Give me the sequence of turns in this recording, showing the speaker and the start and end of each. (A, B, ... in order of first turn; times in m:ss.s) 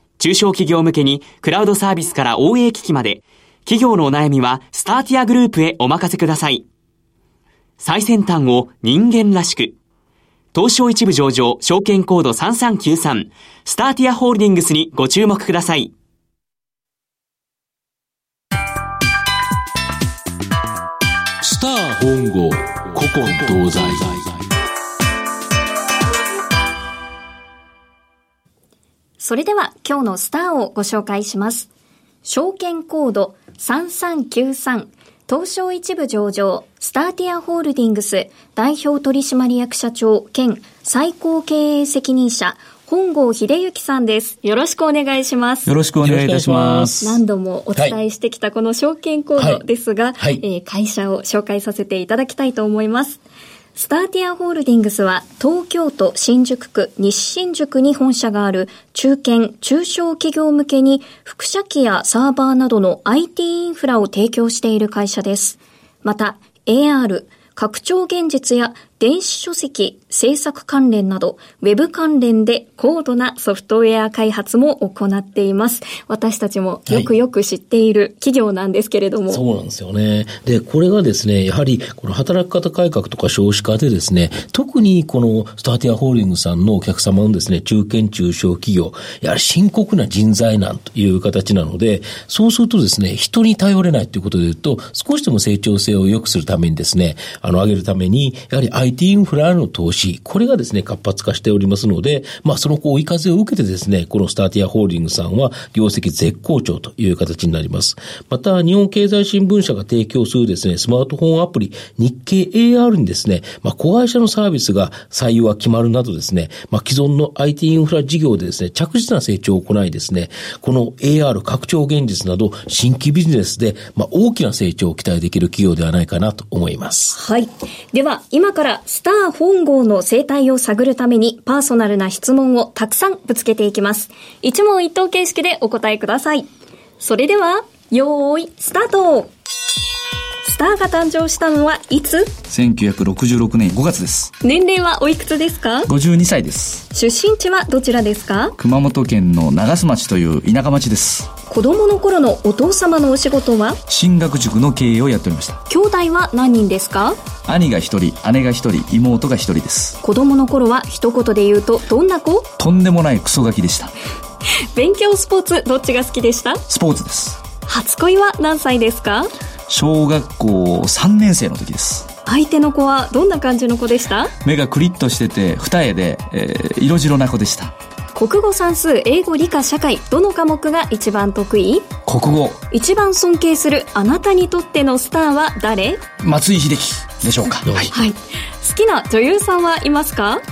0:00.2-0:06.7 A
0:07.8-0:09.8 A
0:10.5-0:15.9 A
0:21.4-0:24.5 B
0:29.2-0:31.7 C
0:32.2-0:45.7 C
0:45.7-0:47.2 D
0:46.0-0:47.0 B
0:47.0-0:53.2 C
0:49.4-0:49.6 B
0:50.2-0:50.4 B
0:53.8-1:19.4 C
1:19.3-2:07.2 B
2:07.1-2:16.5 C
2:17.0-2:19.3 C
2:20.4-2:22.3 C
2:22.5-2:24.3 D
2:24.4-2:25.9 C
2:25.9-2:26.8 D
2:26.9-2:28.6 C
2:28.6-2:31.3 D
2:31.5-2:33.8 C
2:33.9-2:35.6 D
2:35.7-2:37.2 C
2:37.5-2:40.0 D
2:40.0-2:42.5 C
2:42.6-2:43.9 D
2:44.7-2:46.6 C
2:46.7-2:47.4 D
2:47.7-2:49.3 C
2:49.7-2:52.1 D
2:52.3-2:54.3 C
2:54.4-2:57.7 D
2:58.2-3:01.9 C
3:02.1-3:02.6 D
3:02.7-3:06.0 C
3:06.2-3:07.9 D
3:07.7-3:07.9 B
3:07.9-3:10.4 C